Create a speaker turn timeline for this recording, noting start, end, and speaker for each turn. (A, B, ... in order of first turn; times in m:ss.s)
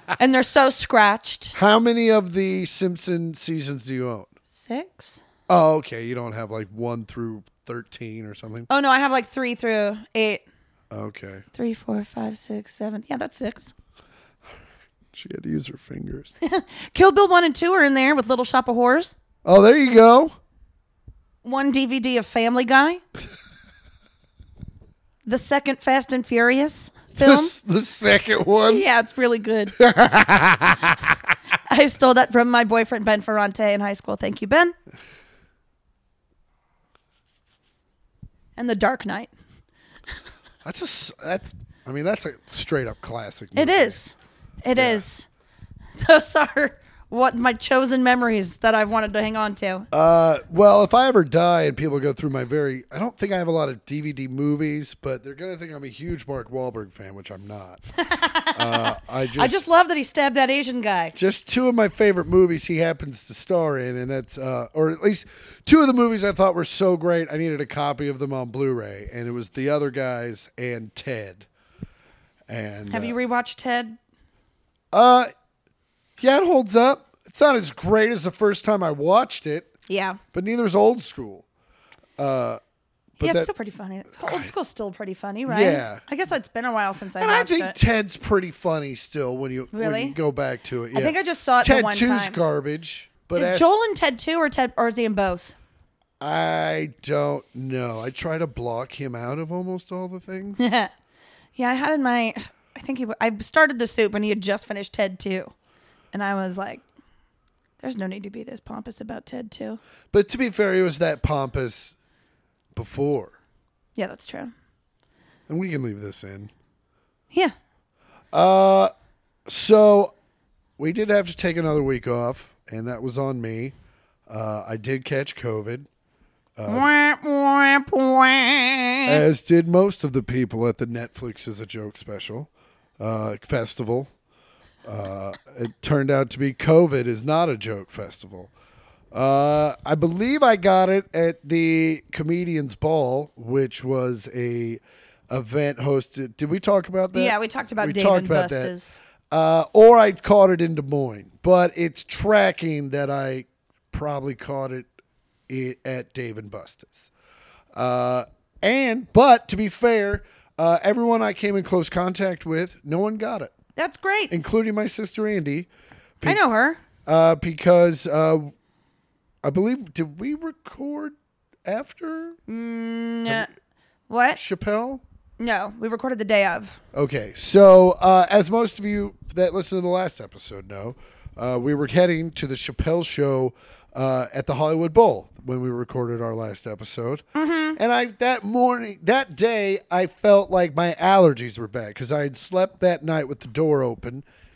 0:00.2-0:01.6 A
0:01.6-0:04.3 B
0:04.5-0:05.2 A
0:05.5-0:08.7 B
0:08.7-0:10.4 A
0:10.9-0:11.4 B
0:11.6-0:13.7 A
0:15.1-0:16.3 B
0:16.4-0:19.1 A
0:19.4-0:20.4 B
0:21.4-0:23.0 A
0:25.3-0:27.6 A
0:27.2-0:28.8 B
0:28.7-0:29.8 A
0:29.8-0:31.2 B
0:31.7-0:34.8 A
0:38.6-0:39.3 A
0:40.6-0:44.0 B
0:43.6-0:45.3 A
0:44.8-0:45.0 B
0:46.0-0:49.9 A
0:49.9-0:57.8 B
0:58.0-1:01.2 A
0:58.6-0:59.6 B
1:01.2-1:11.5 B
1:12.5-1:13.2 B
1:12.9-1:14.0 A
1:14.9-1:15.3 B
1:16.2-1:19.7 B
1:19.9-1:20.2 A
1:20.3-1:21.5 B
1:22.2-1:22.6 B
1:23.2-1:23.5 B
1:23.2-1:27.8 A
1:24.2-1:24.5 B
1:25.5-1:26.0 B
1:27.2-1:33.7 B
1:29.7-1:30.2 A
1:30.9-1:32.4 A
1:33.4-1:35.6 A
1:36.2-1:40.6 B
1:40.6-1:40.9 A
1:41.6-1:45.5 A
1:46.1-1:46.8 A
1:47.8-1:49.8 A
1:50.1-1:52.0 B
1:52.8-1:53.4 B
1:54.0-1:54.5 A
1:55.5-1:56.5 B
1:58.3-1:58.9 B
1:59.5-2:00.1 B
2:00.8-2:03.7 B
2:04.3-2:05.9 B
2:06.6-2:06.9 B
2:06.7-2:09.2 A
2:09.1-2:14.1 B
2:14.8-2:18.5 B
2:19.1-2:28.7 B
2:27.1-2:29.0 A
2:29.3-2:34.9 B
2:35.5-2:37.1 B
2:37.7-2:43.5 B
2:43.8-2:44.3 A
2:44.3-2:45.7 B
2:46.2-2:46.8 A
2:47.1-2:48.5 B
2:49.4-2:52.4 B
2:52.5-2:53.5 A
2:54.1-2:54.4 A
2:54.4-2:55.0 B
2:55.4-2:56.8 A
2:56.9-3:07.2 B
3:07.4-3:07.8 A
3:07.8-3:14.2 B